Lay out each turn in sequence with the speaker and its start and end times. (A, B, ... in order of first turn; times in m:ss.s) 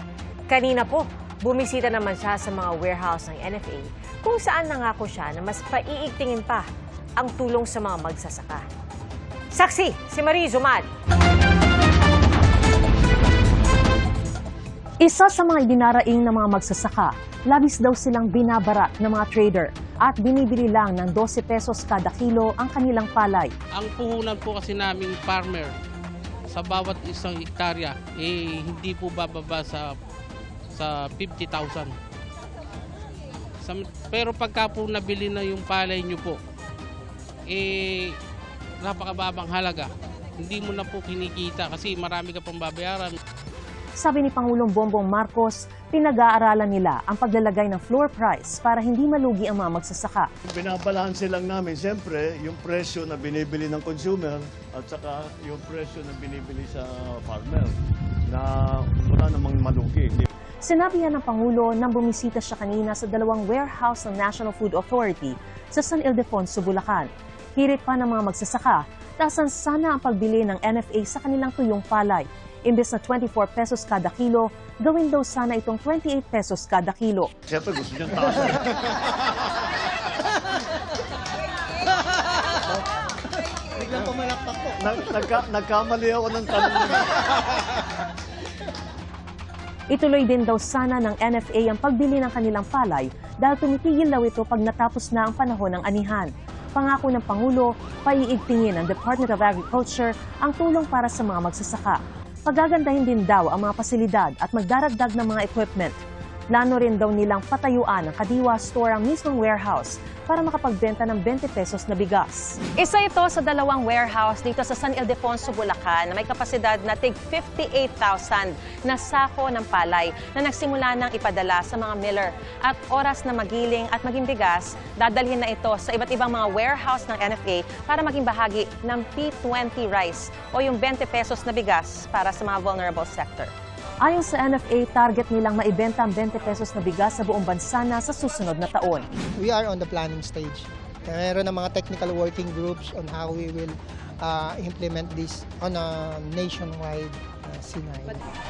0:00.5-0:06.7 A
0:07.2-0:08.6 A
0:09.5-0:10.9 A
0:15.0-0:23.5 B
0:23.8-0:25.7 C
0:26.5-0:29.9 C
0:30.7-0:31.9 C
0:33.6-0:36.4 C
0:37.5-0:38.1 C
0:38.8-0:39.9 C
0:40.4-0:43.2 C
0:44.0-0:50.3 B
0:50.4-0:57.8 D
0:58.3-1:00.3 D
1:00.6-1:17.3 B
1:17.5-1:19.2 D
1:24.7-1:27.3 D
1:29.9-1:46.0 B
1:46.5-1:52.7 B
1:52.8-2:13.5 E
2:14.0-2:19.1 B
2:19.4-2:28.2 F